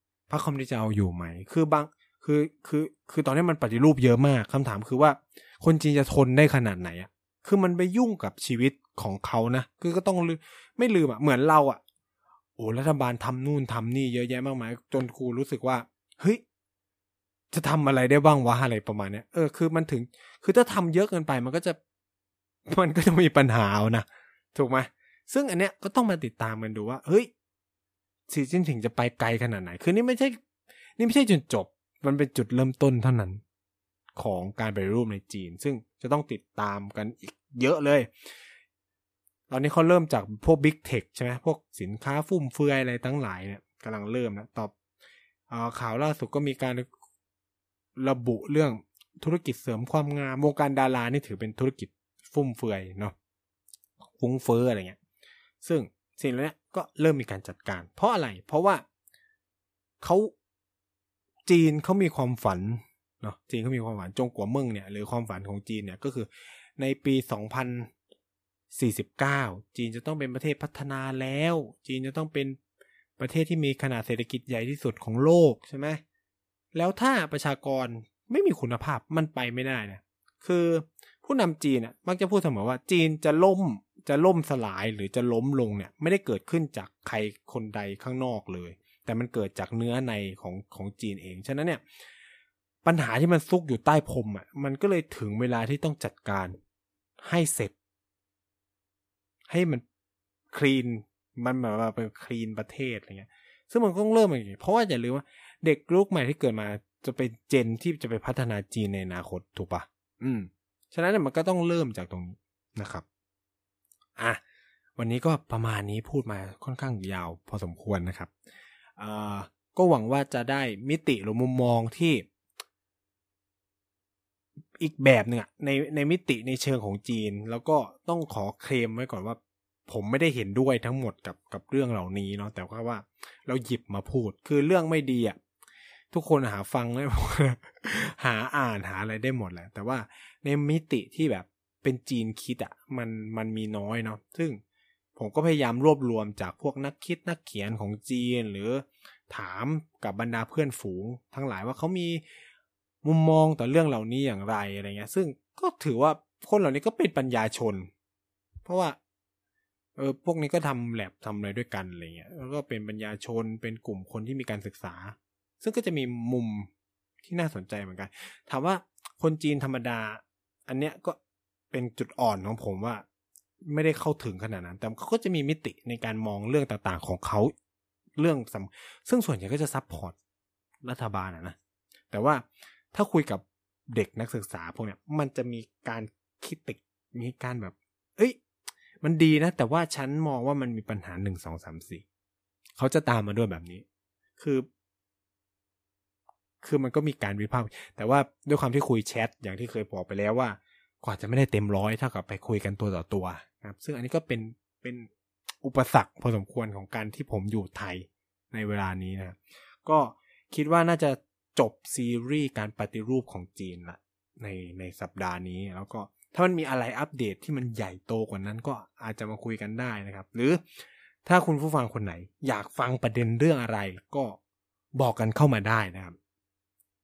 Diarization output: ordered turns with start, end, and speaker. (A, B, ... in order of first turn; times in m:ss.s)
0:00.3-0:11.8 A
0:12.6-0:16.4 A
0:17.5-0:21.8 A
0:22.7-0:27.3 A
0:28.3-0:30.4 A
0:31.0-0:33.4 A
0:34.2-0:38.1 A
0:39.5-0:44.7 A
0:45.5-0:46.8 A
0:48.0-0:53.1 A
0:54.1-0:55.0 A
0:55.6-0:58.8 A
1:00.0-1:00.3 A
1:01.4-1:07.9 A
1:08.7-1:12.6 A
1:13.2-1:16.0 A
1:16.7-1:31.8 A
1:32.8-1:36.6 A
1:37.2-1:37.7 A
1:39.5-1:39.8 A
1:40.5-1:53.0 A
1:55.0-1:58.3 A
1:59.0-2:02.2 A
2:04.8-2:15.4 A
2:16.1-2:24.6 A
2:25.2-2:32.2 A
2:33.0-2:37.9 A
2:38.6-2:39.0 A
2:40.0-2:46.7 A
2:47.2-2:51.2 A
2:51.7-2:53.0 A
2:53.6-2:57.5 A
2:58.2-3:00.2 A
3:00.8-3:01.6 A
3:02.1-3:08.4 A
3:09.0-3:12.0 A
3:12.8-3:13.8 A
3:14.4-3:14.7 A
3:16.6-3:25.1 A
3:25.6-3:44.4 A
3:45.0-3:46.2 A